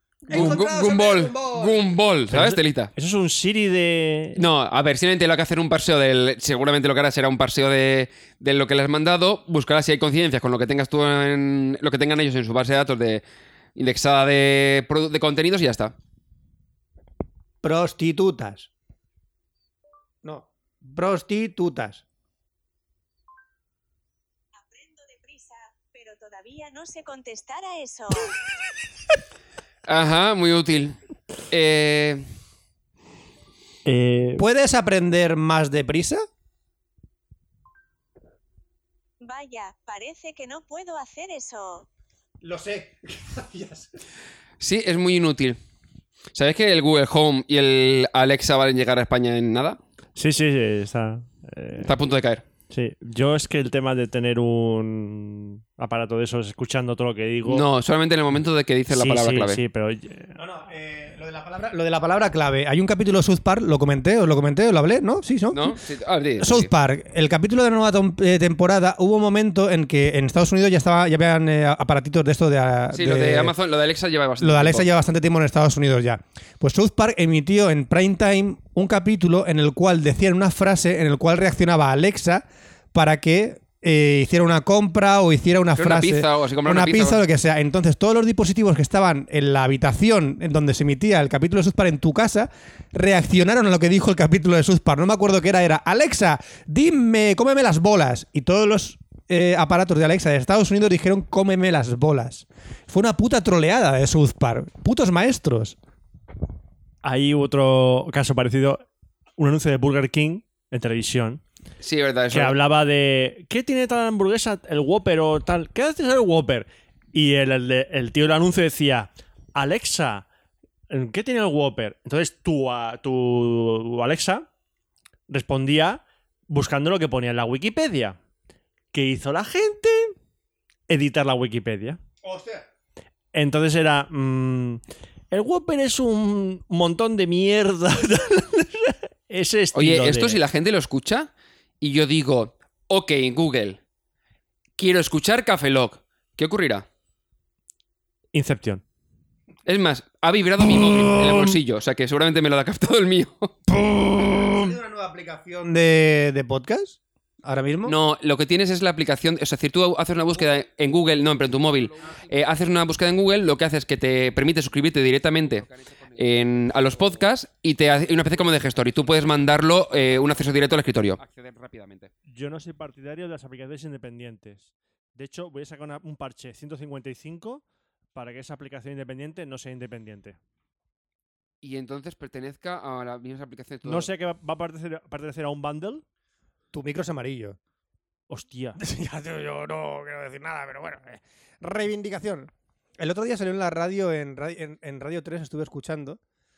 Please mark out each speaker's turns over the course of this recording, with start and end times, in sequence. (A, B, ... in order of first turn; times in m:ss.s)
0:00.3-0:01.8 A
0:00.3-0:02.9 B
0:02.3-0:04.4 C
0:04.4-0:13.2 B
0:13.8-0:15.9 B
0:17.6-0:18.7 A
0:20.2-0:22.0 A
0:24.6-0:28.3 D
0:29.8-0:31.0 B
0:31.5-0:32.2 B
0:33.8-0:34.4 C
0:34.4-0:36.2 A
0:39.2-0:41.9 D
0:42.4-0:43.9 A
0:44.6-0:45.6 B
0:46.3-0:49.8 B
0:50.2-0:51.9 C
0:51.8-0:52.4 B
0:52.7-0:57.6 C
0:57.4-0:59.6 B
0:58.9-1:00.3 C
1:00.4-1:05.8 A
1:05.5-1:06.7 B
1:06.4-1:13.5 A
1:12.9-1:14.9 B
1:14.4-1:45.8 A
1:25.8-1:27.2 B
1:47.0-1:48.8 C
1:49.4-1:51.4 C
1:51.8-1:52.6 B
1:52.3-2:00.2 C
2:00.9-2:04.4 C
2:05.3-2:08.2 C
2:08.9-2:10.1 C
2:10.9-2:12.0 C
2:12.2-2:12.6 A
2:13.3-2:20.4 C
2:19.7-2:21.3 B
2:21.8-2:23.8 B
2:24.8-2:26.8 B
2:28.3-2:28.8 C
2:29.6-2:33.5 B
2:33.7-2:37.9 A
2:37.8-2:52.1 B
2:52.3-2:57.6 C
2:58.1-3:00.4 C
3:01.6-3:04.1 B
3:03.8-3:06.0 C
3:06.7-3:07.6 A
3:08.3-3:08.8 C
3:08.8-3:16.2 A